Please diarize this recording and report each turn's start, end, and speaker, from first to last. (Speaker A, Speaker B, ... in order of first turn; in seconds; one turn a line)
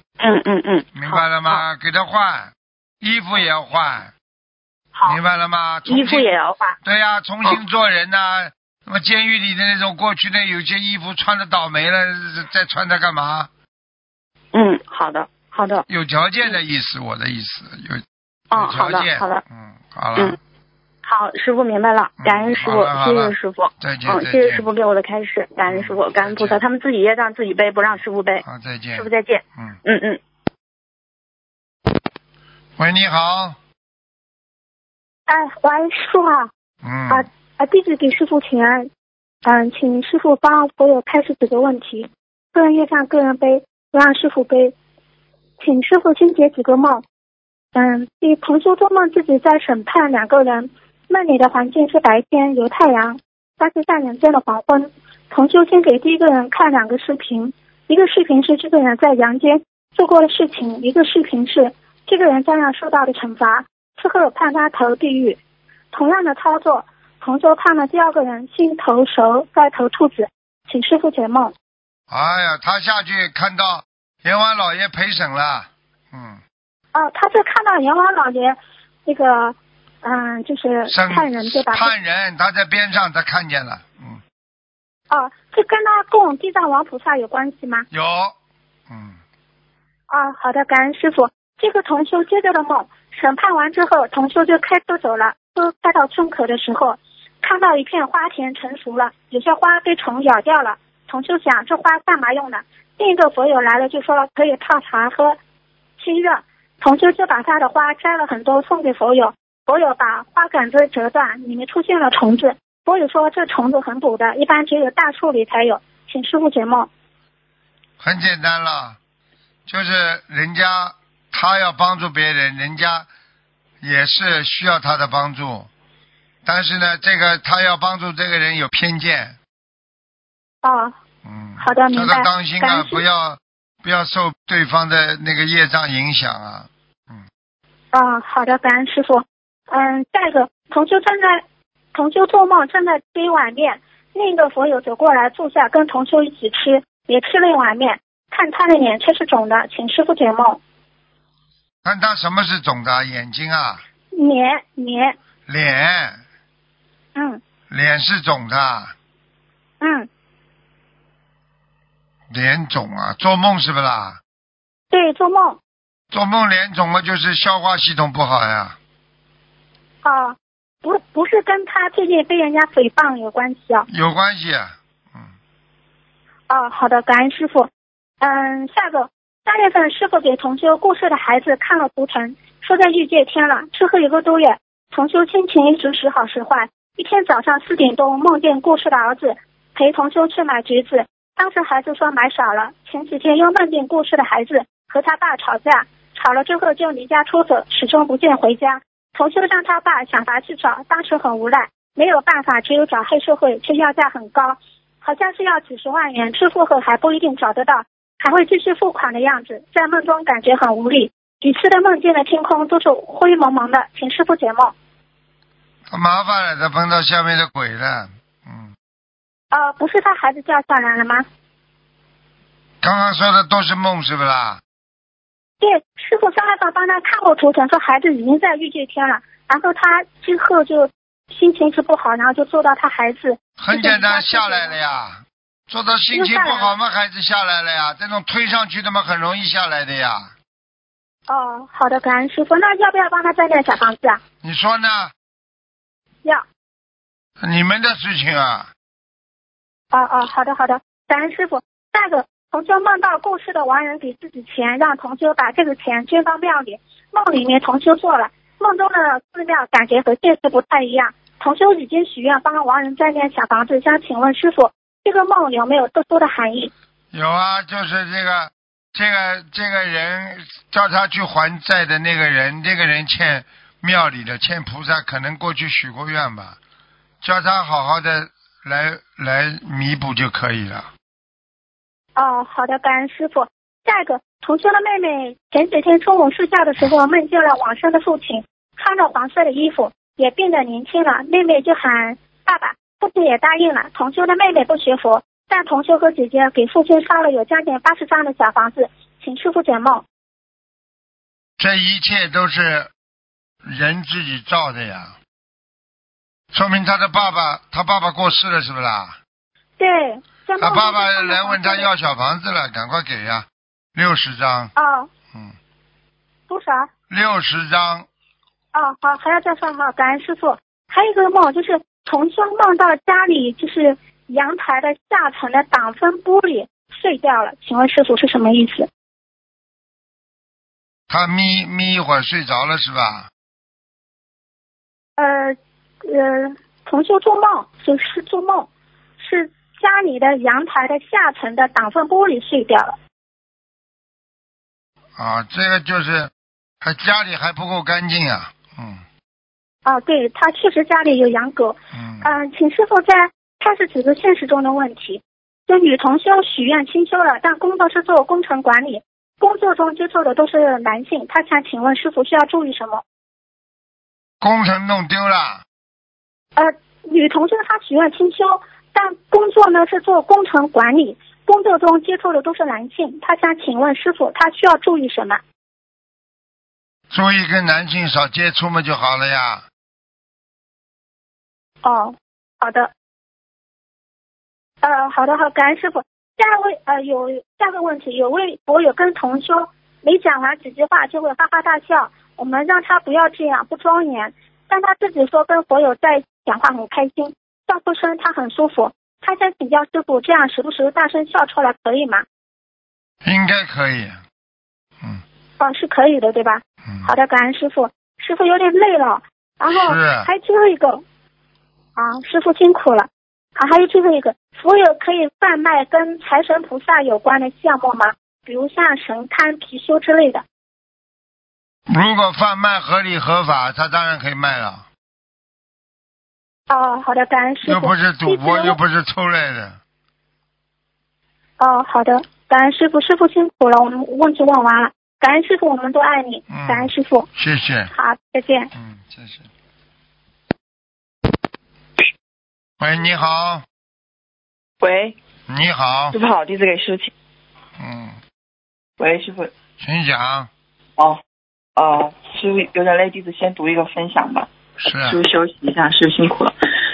Speaker A: 0.2-1.6
Speaker B: 0.9-4.1
Speaker B: 5.0-6.3
Speaker A: 5.9-6.8
Speaker B: 6.8-13.5
Speaker A: 14.5-15.9
Speaker B: 15.9-18.0
Speaker A: 18.5-19.4
Speaker B: 18.5-20.4
Speaker A: 21.0-30.2
Speaker B: 22.2-24.6
Speaker B: 25.7-26.6
Speaker B: 27.9-29.8
Speaker B: 32.8-33.6
Speaker C: 35.3-36.5
Speaker B: 36.8-37.3
Speaker C: 37.1-38.9
Speaker C: 39.4-44.8
Speaker C: 45.6-47.0
Speaker C: 47.7-65.4
Speaker C: 65.9-71.5
Speaker B: 72.1-76.4
Speaker C: 76.9-81.9
Speaker B: 80.9-84.2
Speaker C: 85.1-87.8
Speaker B: 87.9-88.4
Speaker B: 88.9-89.2
Speaker C: 90.1-105.4
Speaker C: 106.0-116.9
Speaker B: 118.0-119.0
Speaker B: 119.7-123.1
Speaker B: 123.8-125.7
Speaker B: 126.5-129.4
Speaker C: 130.6-130.9
Speaker B: 131.2-137.2
Speaker C: 131.6-133.0
Speaker C: 137.9-141.4
Speaker C: 141.9-150.6
Speaker B: 151.8-153.8
Speaker C: 154.1-155.2
Speaker B: 155.5-156.2
Speaker C: 157.2-157.4
Speaker B: 157.7-158.9
Speaker C: 159.8-160.1
Speaker B: 162.3-164.2
Speaker C: 164.9-165.6
Speaker B: 166.1-168.8
Speaker C: 170.0-173.9
Speaker B: 173.9-175.3
Speaker C: 176.5-177.7
Speaker C: 178.2-214.7
Speaker B: 215.9-218.7
Speaker C: 219.5-221.3
Speaker B: 222.8-224.6
Speaker C: 225.6-234.7
Speaker B: 233.6-240.3
Speaker C: 236.1-236.7
Speaker C: 241.3-244.2
Speaker B: 244.4-245.1
Speaker B: 247.4-248.7
Speaker C: 249.9-266.7
Speaker B: 267.1-276.6
Speaker B: 277.2-280.9
Speaker C: 282.2-300.1
Speaker B: 301.6-302.9
Speaker B: 303.6-305.2
Speaker B: 306.5-309.2
Speaker C: 309.8-311.9
Speaker B: 310.6-314.7
Speaker C: 314.8-315.1
Speaker C: 316.5-316.9
Speaker B: 317.1-318.1
Speaker C: 318.7-328.9
Speaker B: 331.1-333.3
Speaker C: 335.2-343.0
Speaker B: 345.2-346.3
Speaker B: 346.8-349.0
Speaker C: 349.9-363.0
Speaker B: 351.9-352.3
Speaker B: 364.4-365.6
Speaker C: 366.6-375.4
Speaker B: 377.1-379.6
Speaker C: 381.8-382.9
Speaker C: 384.8-402.2
Speaker B: 403.2-404.2
Speaker C: 405.6-411.0
Speaker B: 409.7-410.3
Speaker C: 412.0-420.4
Speaker B: 421.9-424.9
Speaker C: 426.7-428.8
Speaker B: 427.6-429.8
Speaker C: 431.6-437.3
Speaker B: 436.5-437.9
Speaker C: 437.9-438.7
Speaker B: 438.7-439.5
Speaker B: 442.8-443.6
Speaker D: 444.8-445.2
Speaker B: 445.5-446.2
Speaker D: 446.1-447.1
Speaker B: 447.8-448.2
Speaker D: 449.0-449.5
Speaker B: 449.8-450.5
Speaker D: 451.8-454.5
Speaker B: 454.8-455.2
Speaker D: 455.0-456.5